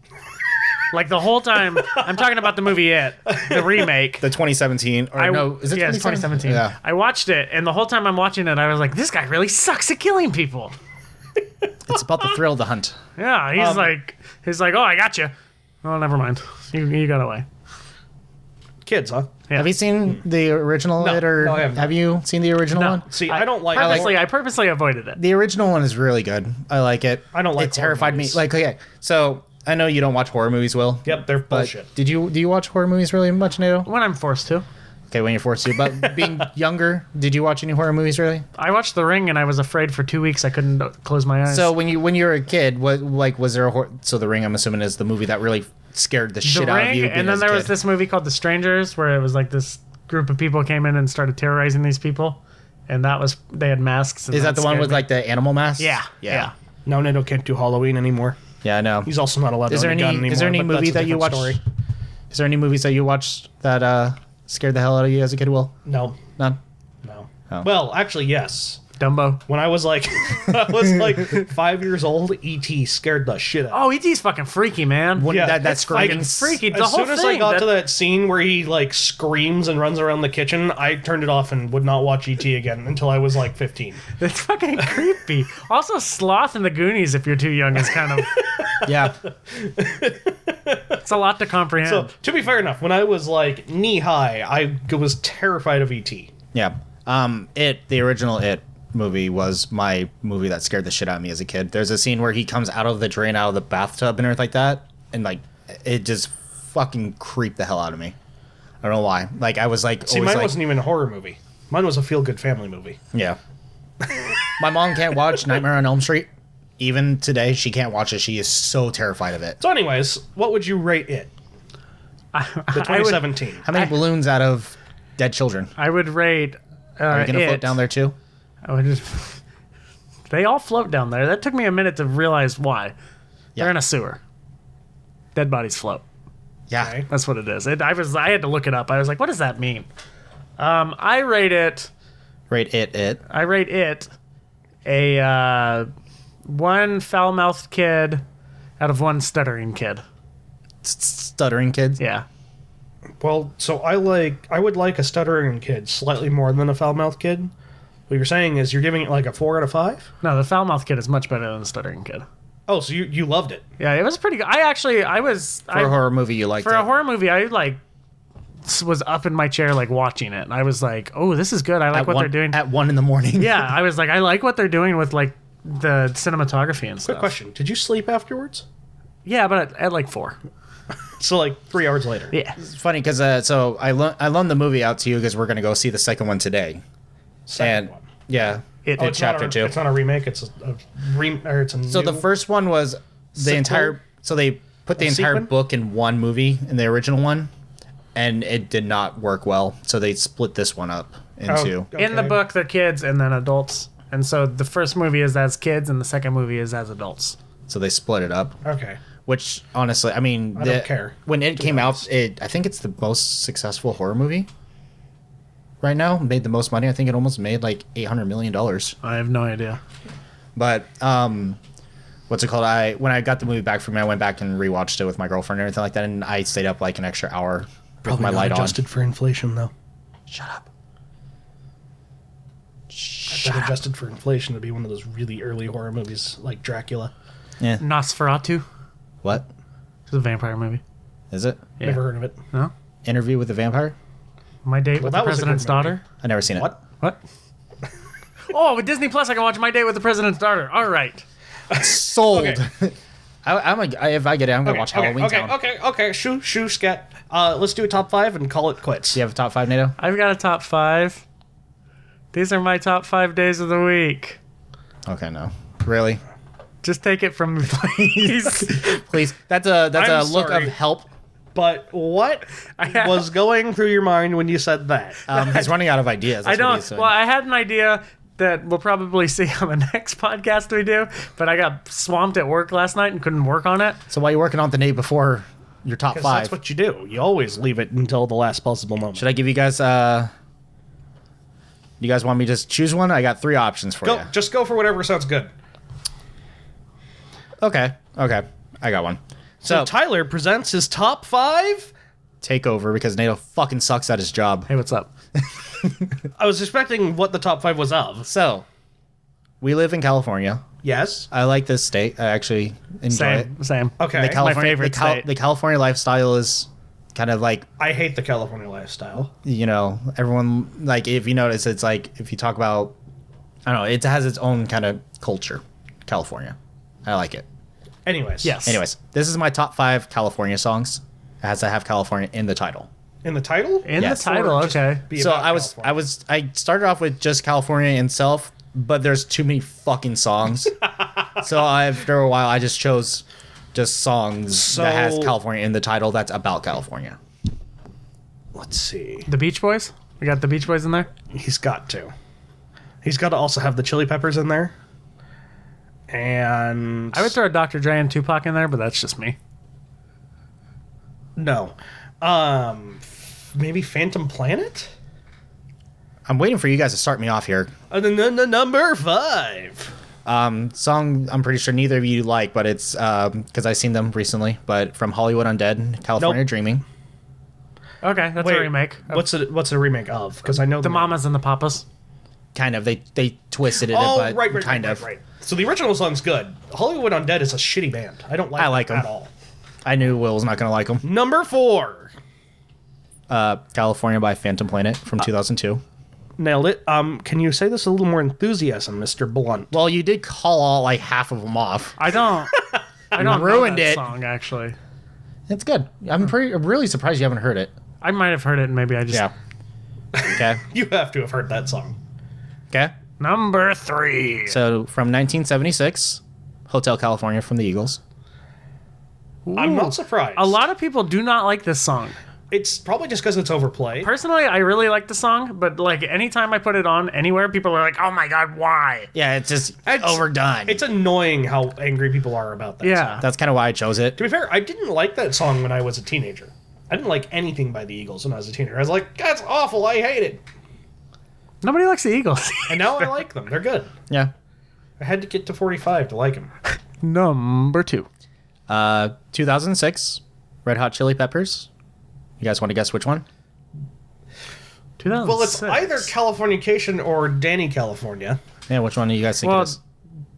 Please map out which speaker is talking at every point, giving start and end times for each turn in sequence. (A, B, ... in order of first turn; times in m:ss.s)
0:00.9-0:04.3 A
0:03.3-0:03.8 B
0:04.2-0:06.8 C
0:05.2-0:10.7 A
0:11.9-0:13.0 C
0:13.2-0:17.4 A
0:13.6-0:13.9 B
0:18.8-0:19.4 B
0:19.5-0:23.1 C
0:21.0-0:22.0 B
0:22.7-0:24.2 B
0:22.8-0:25.2 A
0:23.7-0:24.1 C
0:25.2-0:33.9 C
0:27.3-0:28.4 B
0:31.0-0:31.9 B
0:33.8-0:34.6 A
0:35.1-0:38.4 C
0:38.6-0:41.7 A
0:41.5-0:47.7 C
0:46.4-0:55.1 A
0:54.3-0:56.5 C
0:55.8-0:56.5 A
0:56.8-0:58.4 B
0:58.6-0:59.1 C
0:59.0-1:01.6 B
0:59.7-1:01.6 C
1:02.3-1:05.7 C
1:05.8-1:06.2 B
1:07.0-1:08.8 B
1:09.0-1:09.4 A
1:09.5-1:13.8 B
1:13.7-1:17.8 A
1:15.2-1:16.6 C
1:15.3-1:24.0 B
1:24.2-1:28.3 A
1:28.1-1:31.0 B
1:28.8-1:29.2 C
1:31.0-1:32.1 A
1:31.8-1:36.3 B
1:36.5-1:48.1 C
1:48.8-1:50.6 C
1:50.0-1:53.0 B
1:53.1-1:53.4 C
1:54.6-1:59.6 C
1:59.6-2:01.3 B
2:02.3-2:03.9 A
2:02.7-2:03.6 B
2:03.6-2:05.7 C
2:05.8-2:07.8 A
2:07.1-2:08.2 C
2:08.6-2:09.4 A
2:10.3-2:12.9 A
2:13.6-2:14.2 A
2:15.3-2:16.0 A
2:16.7-2:17.0 C
2:16.8-2:17.1 B
2:17.1-2:19.9 A
2:20.6-2:21.9 A
2:22.5-2:23.2 C
2:23.3-2:24.1 A
2:24.8-2:25.9 A
2:26.5-2:28.2 A
2:28.8-2:30.0 A
2:30.8-2:32.0 C
2:32.0-2:32.2 A
2:33.2-2:37.5 B
2:38.1-2:40.1 B
2:40.2-2:42.2 A
2:42.7-2:43.6 B
2:43.8-2:47.8 A
2:45.7-2:46.9 C
2:48.6-2:52.6 A
2:51.9-2:53.7 C
2:53.3-2:57.3 A
2:57.1-2:58.6 B
2:59.2-3:00.4 A
3:01.2-3:02.3 B
3:02.3-3:02.6 A
3:02.6-3:06.8 C
3:07.5-3:08.0 B
3:07.6-3:09.7 C
3:08.8-3:09.2 A
3:09.0-3:12.2 B
3:11.9-3:17.5 C
3:13.4-3:14.0 B
3:15.0-3:15.5 B
3:18.1-3:21.9 C
3:21.5-3:22.4 B
3:22.0-3:27.4 A
3:27.7-3:28.6 C
3:28.6-3:29.0 B
3:29.2-3:34.5 C
3:30.5-3:32.0 B
3:35.8-3:39.0 C
3:39.0-3:39.8 A
3:40.6-3:41.6 C
3:42.3-3:48.8 C
3:48.0-3:49.7 B
3:50.3-3:50.7 C
3:52.9-3:53.8 C
3:53.3-3:57.1 B
3:57.8-3:58.6 A
4:00.1-4:00.8 A
4:01.3-4:01.6 C
4:01.8-4:02.4 B
4:01.8-4:02.7 A
4:03.0-4:04.0 C
4:04.6-4:06.0 A
4:05.0-4:06.0 B
4:06.2-4:06.7 C
4:08.5-4:11.2 A
4:11.7-4:12.6 B
4:11.7-4:15.5 C
4:14.6-4:19.2 B
4:19.1-4:20.0 C
4:20.0-4:21.2 A
4:22.3-4:24.4 A
4:25.0-4:26.2 C
4:26.8-4:28.9 A
4:28.0-4:31.1 C
4:29.9-4:30.8 B
4:31.5-4:35.2 B
4:32.8-4:33.3 A
4:35.3-4:37.1 C
4:35.3-4:35.8 A
4:36.4-4:44.0 A
4:44.1-4:46.5 C
4:46.1-4:49.3 B
4:49.1-4:50.3 C
4:52.0-4:54.3 C
4:54.0-4:55.5 B
4:57.6-4:59.9 C
4:59.6-5:01.9 B
5:02.4-5:04.7 C
5:04.7-5:05.1 A
5:05.4-5:06.2 C
5:06.4-5:08.3 B
5:08.2-5:08.6 C
5:09.6-5:10.6 C
5:10.8-5:11.3 B
5:11.3-5:13.5 C
5:13.1-5:15.3 A
5:14.0-5:14.5 B
5:14.1-5:17.7 C
5:17.8-5:19.3 B
5:19.4-5:22.9 C
5:23.6-5:27.4 C
5:28.0-5:28.6 B
5:28.4-5:28.8 A
5:28.6-5:32.9 C
5:33.2-5:35.9 B
5:33.8-5:35.0 A
5:34.0-5:34.3 C
5:35.1-5:40.8 C
5:41.4-5:47.2 C
5:44.6-5:45.3 B
5:48.5-5:49.3 B
5:49.3-5:51.1 A
5:51.3-5:52.1 B
5:53.0-5:54.7 B
5:56.1-5:57.3 B
5:57.1-5:59.4 A
6:01.4-6:04.9 B
6:06.2-6:07.7 C
6:07.9-6:09.9 B
6:10.2-6:16.8 C
6:18.0-6:19.2 A
6:18.4-6:21.2 B
6:20.8-6:21.8 A
6:22.5-6:25.0 C
6:23.9-6:29.3 B
6:28.6-6:29.1 C
6:29.8-6:31.0 C
6:31.0-6:32.1 B
6:33.3-6:35.8 C
6:36.4-6:39.7 B
6:39.7-6:42.0 C
6:42.0-6:42.5 A
6:42.5-6:42.8 B
6:43.1-6:44.8 A
6:43.1-6:44.0 C
6:45.5-6:47.7 C
6:48.0-6:49.3 A
6:50.1-6:52.0 B
6:50.3-6:50.6 C
6:53.2-6:54.6 A
6:54.5-6:58.0 C
6:59.4-7:02.2 A
6:59.6-7:00.6 B
7:02.5-7:04.1 B
7:04.0-7:09.1 A
7:09.1-7:10.8 C
7:09.8-7:13.2 B
7:12.8-7:13.2 A
7:13.2-7:14.2 C
7:14.2-7:20.4 B
7:21.6-7:23.2 A
7:22.7-7:23.9 B
7:25.0-7:26.5 B
7:27.0-7:28.1 A
7:28.7-7:31.7 C
7:32.4-7:33.2 C
7:35.0-7:36.1 A
7:35.1-7:38.4 B
7:38.7-7:39.8 C
7:39.4-7:39.8 A